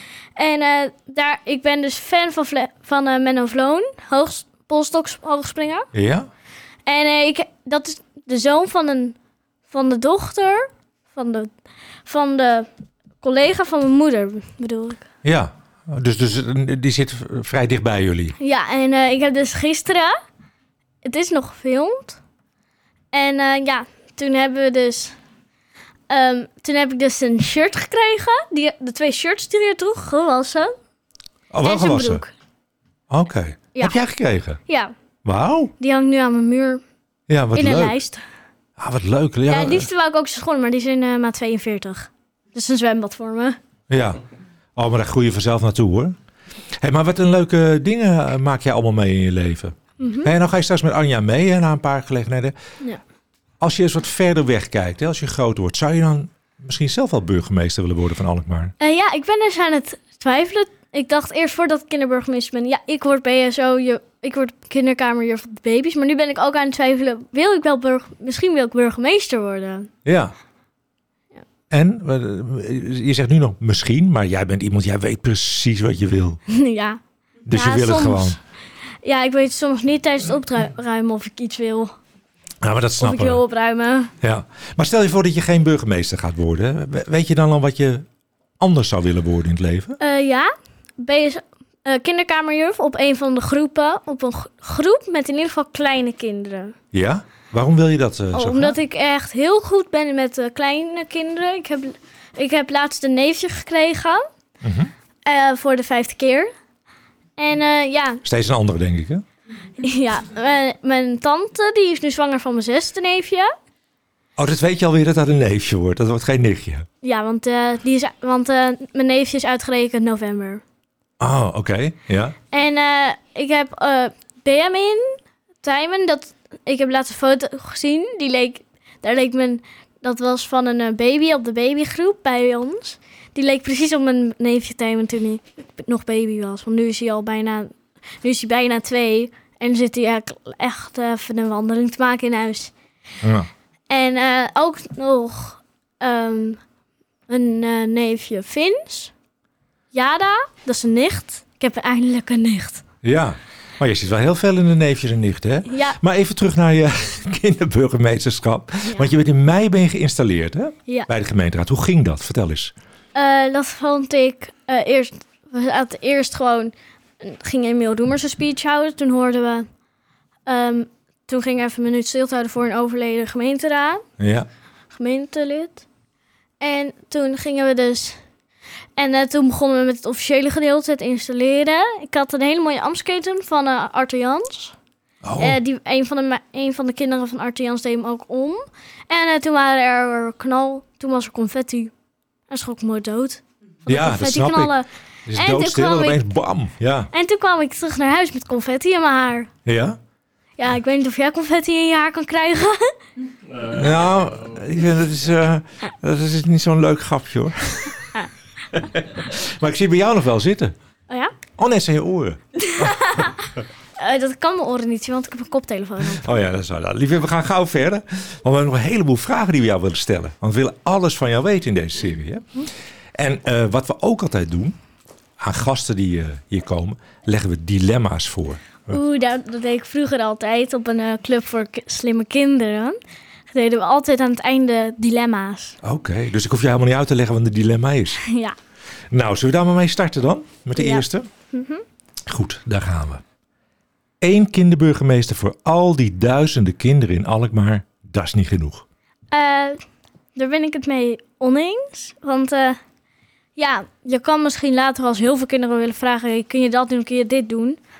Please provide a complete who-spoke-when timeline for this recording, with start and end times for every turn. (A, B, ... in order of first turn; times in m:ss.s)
0:00.4-0:05.9 A
0:05.9-0:06.3 B
0:06.9-0:09.2 A
0:09.7-0:11.5 A
0:12.1-0:12.7 A
0:13.2-0:15.0 A
0:15.2-0:18.4 B
0:18.4-0:20.2 A
0:21.0-0:22.2 A
0:23.1-0:25.2 A
0:26.1-0:30.7 A
0:31.5-0:32.2 B
0:31.6-0:32.3 A
0:33.1-0:34.6 B
0:34.7-0:34.9 A
0:35.2-0:35.7 B
0:35.8-0:36.8 A
0:37.3-0:38.0 B
0:37.5-0:38.2 A
0:38.8-0:39.9 B
0:39.5-0:43.6 A
0:43.9-0:44.2 B
0:44.8-0:46.2 B
0:46.8-0:52.5 B
0:50.0-0:50.3 A
0:53.6-0:58.8 B
0:58.8-1:09.9 A
1:10.0-1:10.3 B
1:11.7-1:16.4 B
1:16.5-1:18.4 A
1:17.5-1:18.4 B
1:19.0-1:21.9 A
1:22.6-1:23.4 B
1:23.0-1:24.1 A
1:24.2-1:28.1 B
1:28.6-1:30.0 B
1:30.0-1:36.8 A
1:36.9-1:38.8 B
1:38.3-1:44.2 A
1:44.6-1:44.9 B
1:45.3-1:46.5 A
1:47.4-1:48.2 A
1:48.2-1:49.2 B
1:49.8-1:53.5 A
1:54.4-1:56.9 B
1:57.0-2:00.6 A
2:01.2-2:02.4 B
2:02.5-2:22.7 A
2:23.2-2:23.5 B
2:23.9-2:26.6 A
2:27.3-2:29.1 A
2:29.9-2:32.8 A
2:33.0-2:42.7 B
2:35.7-2:36.0 A
2:43.2-2:49.7 A
2:50.5-2:54.1 A
2:54.2-2:54.5 B
2:54.9-2:55.8 A
2:56.6-2:58.2 A
2:59.0-3:04.8 A
3:05.2-3:05.6 B
3:05.4-3:11.9 A
3:12.5-3:16.2 A
3:13.9-3:14.8 B
3:15.3-3:17.1 B
3:17.1-3:19.5 A
3:19.7-3:20.0 B
3:20.6-3:22.9 A
3:23.6-3:28.1 B
3:28.7-3:30.7 B
3:31.6-3:33.3 B
3:32.6-3:36.4 A
3:36.1-3:42.5 B
3:43.2-3:44.8 B
3:45.4-3:49.0 B
3:48.9-3:53.0 A
3:53.5-3:55.8 A
3:55.8-3:58.2 B
3:58.2-3:58.6 A
3:59.1-4:01.3 B
4:00.8-4:01.8 A
4:02.3-4:03.2 B
4:04.2-4:08.8 B
4:09.3-4:09.8 A
4:10.4-4:12.8 A
4:13.6-4:17.8 A